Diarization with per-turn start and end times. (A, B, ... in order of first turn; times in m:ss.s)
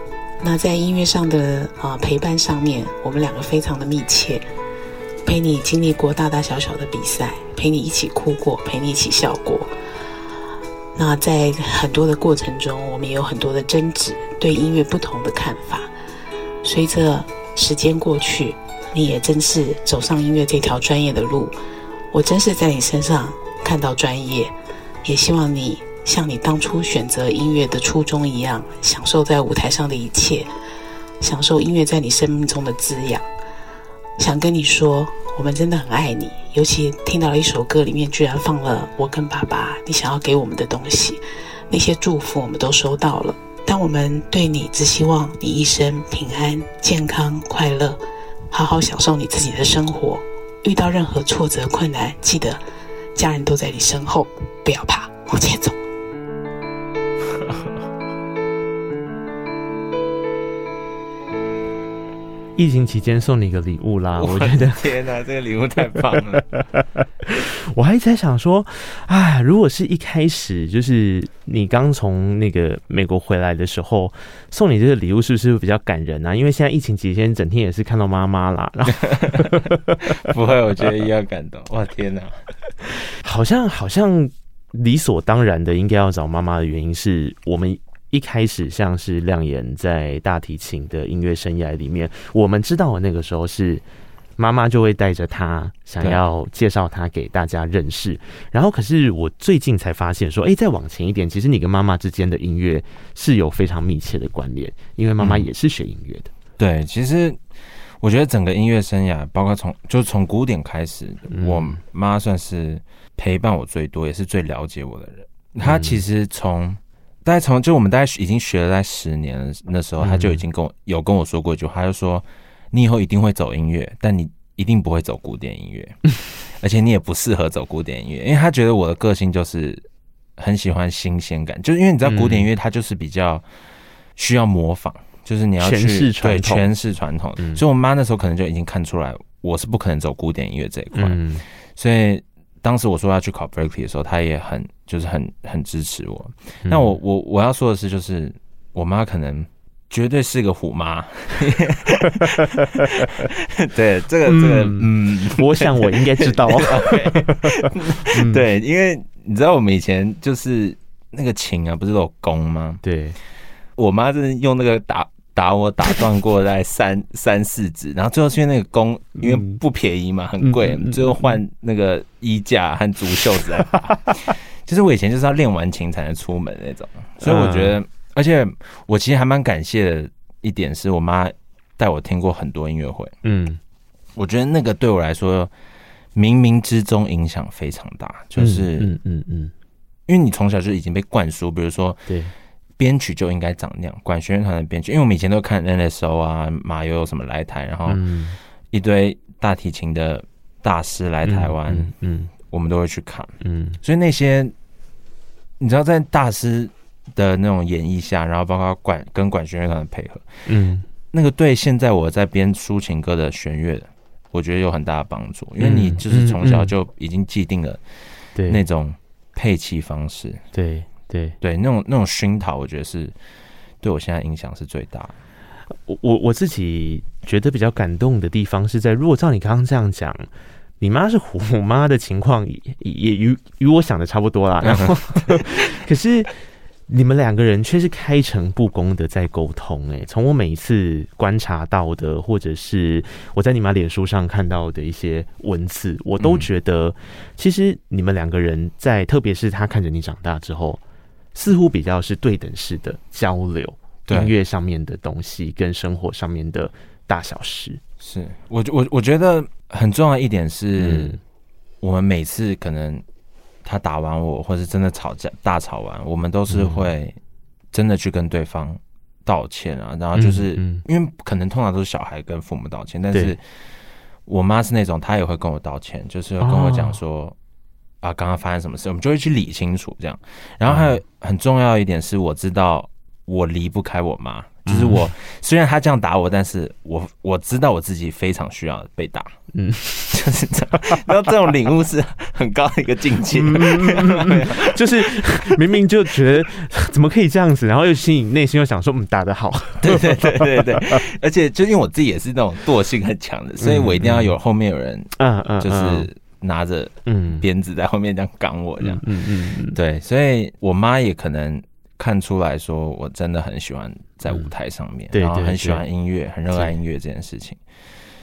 0:00.4-0:04.4 A
0:05.2-0:09.7 A
0:10.9-0:15.9 A
0:16.6-0:21.6 A
0:22.1-0:24.5 A
0:25.0-0:30.5 A
0:31.2-0:33.3 A
0:34.2-0:48.0 A
0:48.5-0:52.6 A
0:53.1-0:55.8 A
1:02.6-1:04.8 B
1:04.2-1:06.4 C
1:07.2-1:20.1 B
1:19.1-1:22.4 C
1:23.2-1:33.8 B
1:34.4-1:46.3 B
1:45.2-1:45.4 C
1:46.6-1:47.4 C
1:48.0-2:06.0 C
1:51.3-1:51.8 B
1:55.6-1:56.0 B
2:00.0-2:00.4 B
2:06.6-2:09.8 C
2:10.4-2:13.4 C
2:12.0-2:12.5 B
2:14.2-2:21.2 C
2:15.6-2:16.7 B
2:20.9-2:21.4 B
2:21.8-2:42.8 C
2:26.6-2:27.0 B
2:34.2-2:38.4 B
2:42.8-2:43.2 B
2:43.8-3:03.1 C
2:49.2-2:49.6 B
2:50.4-2:51.4 B
2:57.2-2:57.8 B
3:03.2-3:03.6 B
3:04.1-3:05.5 C
3:06.1-3:08.9 C
3:08.4-3:09.5 B
3:10.1-3:12.0 C
3:12.1-3:12.3 B
3:12.8-3:18.0 C
3:17.9-3:18.4 B
3:18.7-3:21.9 C
3:21.2-3:22.3 B
3:22.4-3:24.5 C
3:23.4-3:23.8 B
3:25.6-3:30.2 C
3:30.4-3:30.8 B
3:31.1-3:37.8 C
3:35.6-3:36.7 B
3:38.4-3:38.6 B
3:38.5-3:40.4 C
3:40.5-3:41.4 B
3:41.4-3:43.1 C
3:43.8-3:45.1 C
3:45.8-3:50.3 B
3:50.8-3:56.3 B
3:54.6-3:55.4 C
3:56.9-4:10.8 B
4:06.2-4:06.5 C
4:11.3-4:17.8 B
4:14.1-4:14.3 C
4:18.0-4:21.2 C
4:20.8-4:21.2 B
4:21.8-4:23.0 C
4:23.6-4:27.2 C
4:26.5-4:26.8 B
4:27.7-4:33.4 C
4:30.2-4:30.8 B
4:34.2-4:37.4 C
4:36.4-4:37.0 B
4:38.0-4:49.3 C
4:44.6-4:45.1 B
4:49.5-4:50.2 B
4:50.1-4:55.1 C
4:53.3-5:01.0 B
4:59.8-5:09.0 C
5:03.6-5:04.3 B
5:05.2-5:06.1 B
5:07.0-5:07.4 B
5:08.8-5:09.8 B
5:09.7-5:17.6 C
5:14.2-5:14.5 B
5:15.1-5:15.8 B